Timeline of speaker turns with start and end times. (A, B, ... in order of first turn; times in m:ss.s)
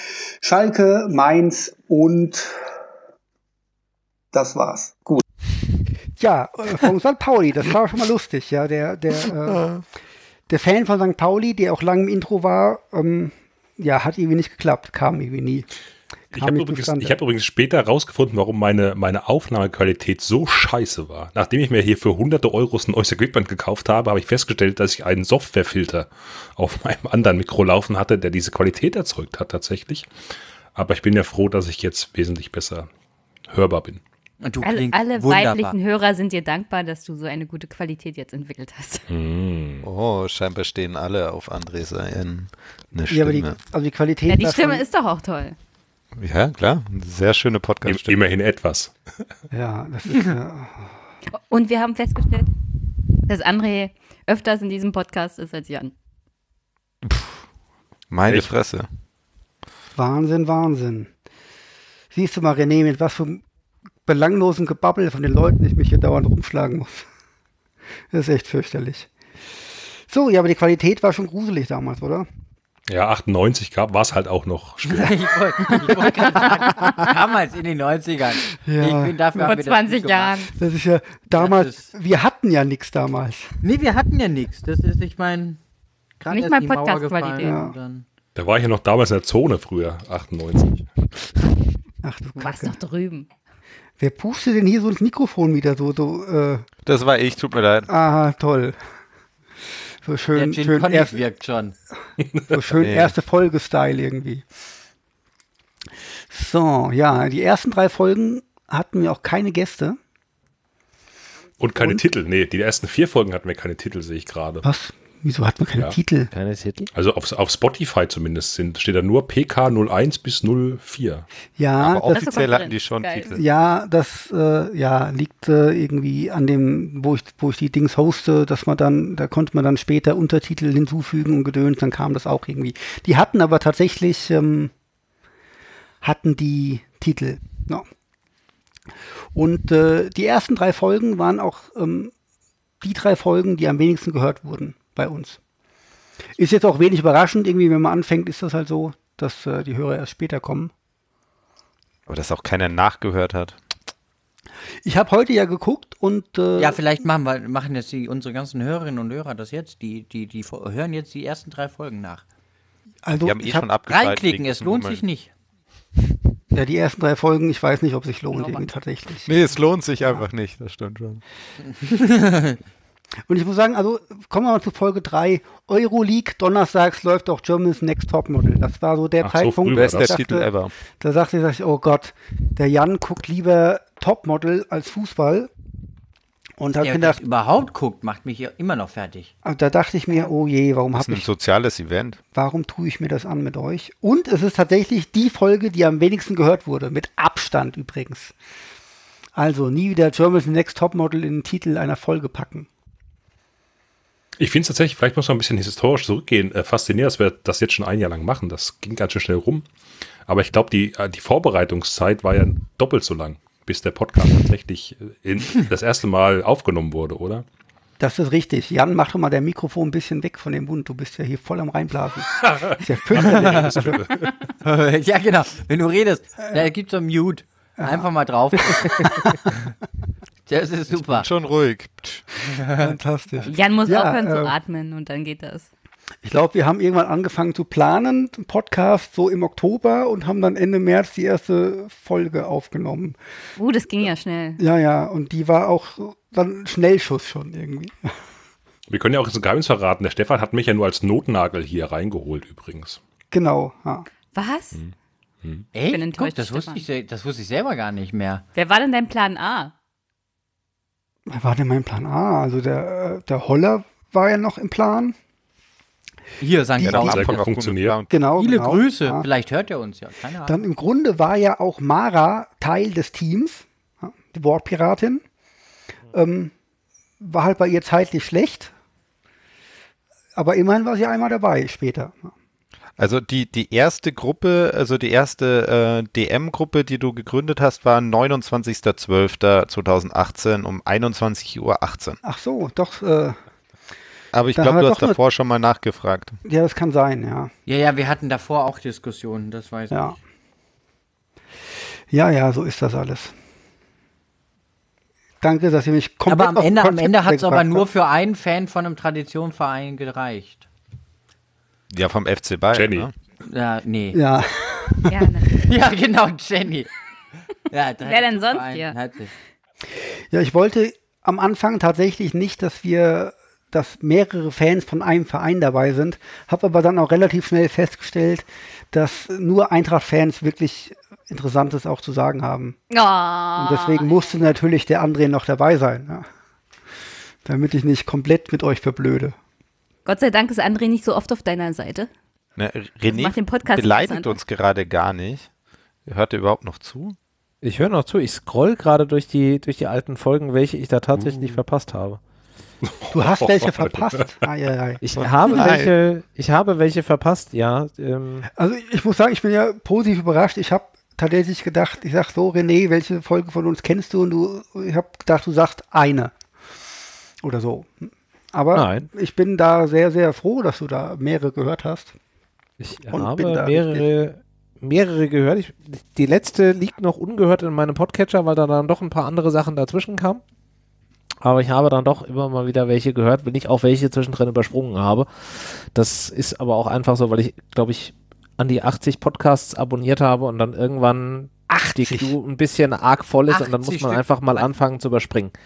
0:00.4-0:02.5 A
0:04.3-0:05.1 A
0:06.2-0:09.7 A
0:09.6-0:09.8 B
0:10.5-0:15.7 A
0:16.3-0:30.1 C
0:16.4-0:17.1 A
0:30.8-0:32.9 C
0:33.5-0:34.0 C
0:34.4-0:35.8 D
0:34.6-0:39.0 E
0:39.1-0:39.8 C
0:39.8-0:43.6 B
0:43.1-0:44.8 A
0:44.3-0:45.6 E
0:46.2-0:48.2 B
0:47.9-0:48.9 C
0:49.5-0:50.9 A
0:51.4-0:52.5 E
0:53.2-0:55.9 E
0:57.0-0:57.4 B
0:58.1-0:58.9 B
1:00.0-1:01.1 A
1:02.1-1:03.4 A
1:04.1-1:07.1 A
1:08.1-1:09.1 A
1:10.1-1:12.3 A
1:12.9-1:15.2 C
1:14.9-1:20.4 D
1:15.7-1:16.0 A
1:16.7-1:17.0 E
1:18.6-1:19.4 A
1:19.4-1:20.5 E
1:20.5-1:23.6 A
1:21.3-1:21.9 D
1:23.6-1:25.6 D
1:26.2-1:28.0 D
1:26.3-1:27.6 E
1:27.4-1:27.7 A
1:28.4-1:30.9 C
1:32.0-1:32.8 A
1:32.4-1:33.3 E
1:34.0-1:36.6 A
1:36.9-1:37.9 B
1:37.9-1:38.8 A
1:40.0-1:41.2 A
1:40.4-1:41.8 D
1:42.5-1:44.5 A
1:42.8-1:43.1 B
1:46.3-1:50.0 A
1:51.6-1:54.7 C
1:51.8-1:52.0 A
1:54.6-1:56.3 A
1:56.3-1:56.9 F
1:56.9-2:01.3 C
2:01.6-2:02.5 A
2:01.8-2:03.4 B
2:02.1-2:03.4 E
2:03.3-2:14.7 A
2:16.0-2:17.9 A
2:19.4-2:22.1 A
2:22.8-2:25.4 A
2:26.4-2:30.7 A
2:32.1-2:33.6 B
2:34.8-2:36.8 A
2:36.6-2:42.2 D
2:43.1-2:43.7 A
2:43.2-2:45.0 B
2:43.9-2:45.3 D
2:46.5-2:49.3 A
2:48.3-2:48.6 E
2:49.3-2:51.2 B
2:51.8-2:52.6 D
2:53.3-3:05.5 A
2:59.2-3:00.2 C
2:59.7-3:00.7 B
3:06.6-3:07.2 A
3:06.8-3:09.3 D
3:09.4-3:11.3 A
3:11.0-3:12.2 B
3:12.3-3:18.3 A
3:19.4-3:22.7 A
3:24.4-3:29.7 C
3:30.3-3:37.4 C
3:38.0-3:44.0 A
3:43.1-3:44.4 C
3:43.3-3:43.7 D
3:44.6-3:49.3 D
3:47.8-3:48.1 A
3:50.5-3:51.3 D
3:50.9-3:52.2 B
3:52.6-3:52.9 D
3:52.8-3:54.6 A
3:53.4-3:55.7 E
3:56.2-4:03.2 A
4:03.6-4:04.6 E
4:04.6-4:08.1 A
4:08.9-4:13.0 C
4:13.3-4:14.1 A
4:14.3-4:14.8 E
4:15.4-4:15.7 C
4:15.7-4:18.4 D
4:15.9-4:16.8 E
4:18.6-4:19.7 E
4:21.3-4:25.2 A
4:26.4-4:27.4 D
4:26.8-4:28.2 B
4:26.8-4:27.1 A
4:26.9-4:28.0 C
4:28.1-4:29.3 A
4:28.4-4:30.7 D
4:30.5-4:35.2 A
4:36.1-4:36.5 A
4:37.2-4:38.7 A
4:40.4-4:42.3 A
4:43.0-4:52.2 B
4:52.2-4:53.4 A
4:54.3-4:56.4 B
4:54.6-4:55.2 A
4:56.4-4:57.5 A
4:57.7-5:00.2 D
4:59.9-5:00.2 A
5:02.1-5:03.3 A
5:05.4-5:07.8 A
5:06.3-5:10.7 D
5:11.9-5:13.1 B
5:12.7-5:13.1 C
5:13.4-5:14.2 D
5:14.1-5:15.3 A
5:15.1-5:15.7 E
5:15.6-5:16.9 D
5:17.7-5:19.3 D
5:18.0-5:19.0 E
5:20.3-5:32.8 A
5:32.9-5:34.3 E
5:33.6-5:36.3 A
5:37.4-5:39.4 A
5:40.1-5:42.1 E
5:42.6-5:45.5 B
5:43.1-5:44.4 E
5:46.1-5:47.2 B
5:47.6-5:52.2 F
5:52.9-5:54.3 C
5:53.1-5:55.7 A
5:55.0-5:58.5 F
5:55.2-5:55.9 B
5:58.6-6:06.3 A
6:07.4-6:12.2 A
6:08.7-6:09.1 F
6:12.8-6:20.4 F
6:13.1-6:14.1 A
6:21.4-6:35.5 F
6:31.7-6:32.4 A
6:33.5-6:34.7 D